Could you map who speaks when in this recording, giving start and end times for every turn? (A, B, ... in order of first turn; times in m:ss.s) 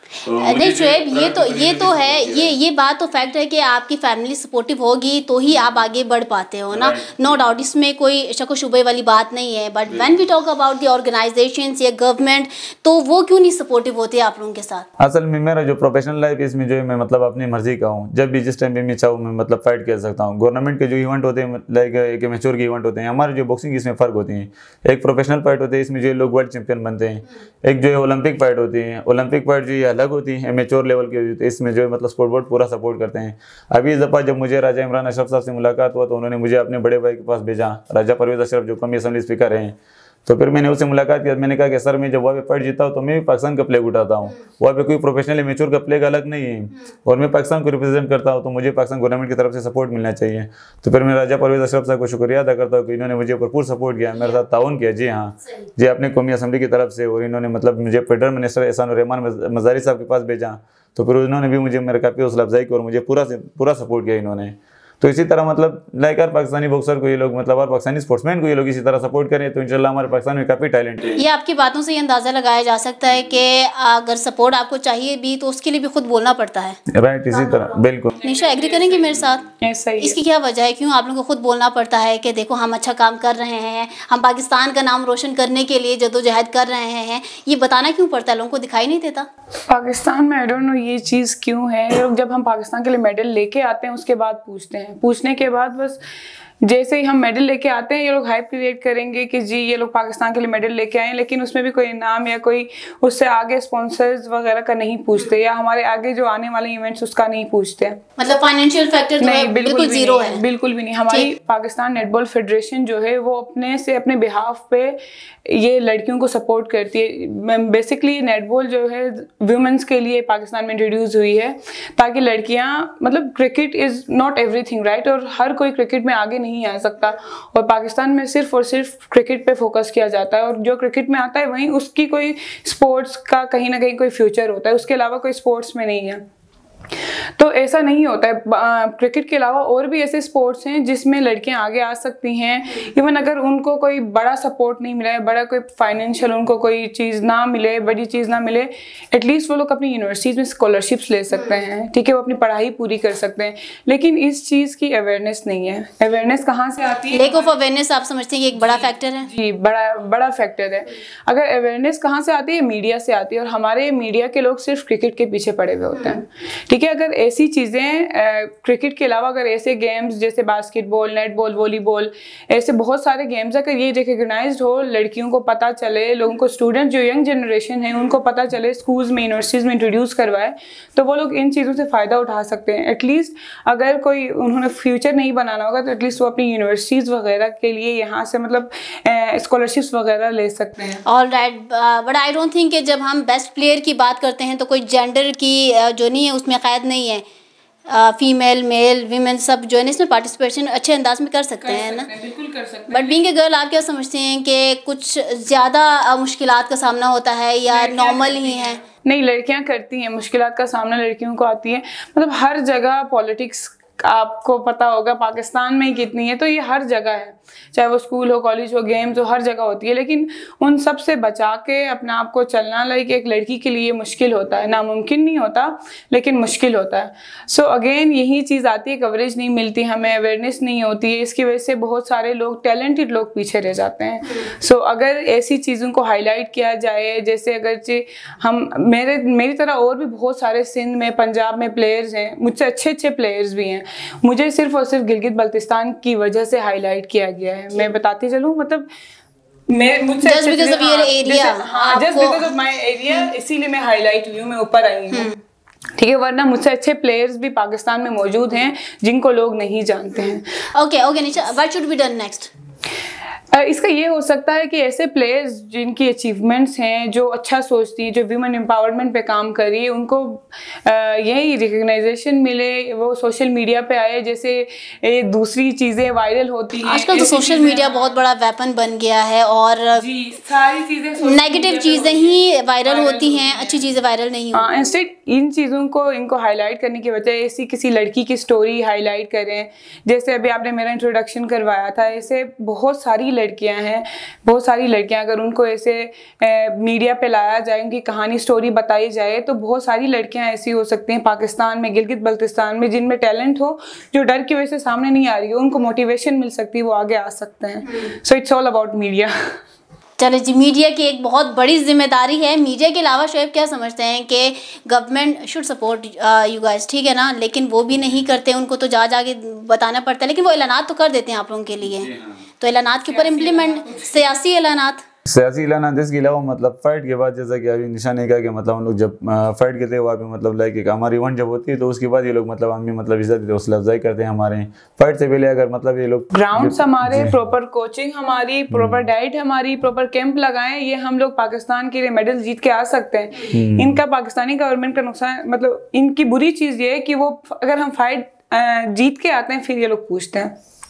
0:00.3-0:02.6 A
0:00.4-0:14.9 B
0:06.7-0:07.6 A
0:15.0-1:11.2 A
1:11.2-1:16.8 B
1:16.9-1:18.2 A
1:18.2-1:19.5 B
1:18.2-1:20.2 C
1:20.0-1:29.3 B
1:29.7-1:36.0 C
1:36.6-1:48.0 C
1:48.2-1:50.4 B
1:49.2-2:16.2 C
2:17.0-2:37.5 C
2:31.3-2:31.6 B
2:37.1-2:39.3 B
2:38.6-3:11.0 C
3:11.1-3:17.2 B
3:17.9-3:22.1 B
3:21.6-3:23.2 C
3:22.9-3:28.8 B
3:27.7-4:08.9 C
4:09.7-4:15.3 C
4:10.2-4:12.5 B
4:15.1-4:15.4 B
4:16.0-4:20.5 C
4:20.7-4:22.5 B
4:23.5-4:38.2 C
4:36.8-4:40.0 B
4:40.0-4:43.9 C
4:41.2-4:44.8 B
4:44.5-5:09.6 C
5:10.2-5:25.0 B
5:21.9-5:22.3 A
5:23.1-5:24.3 C
5:25.3-5:37.4 A
5:36.3-5:50.6 C
5:38.7-5:39.1 A
5:43.5-5:44.0 A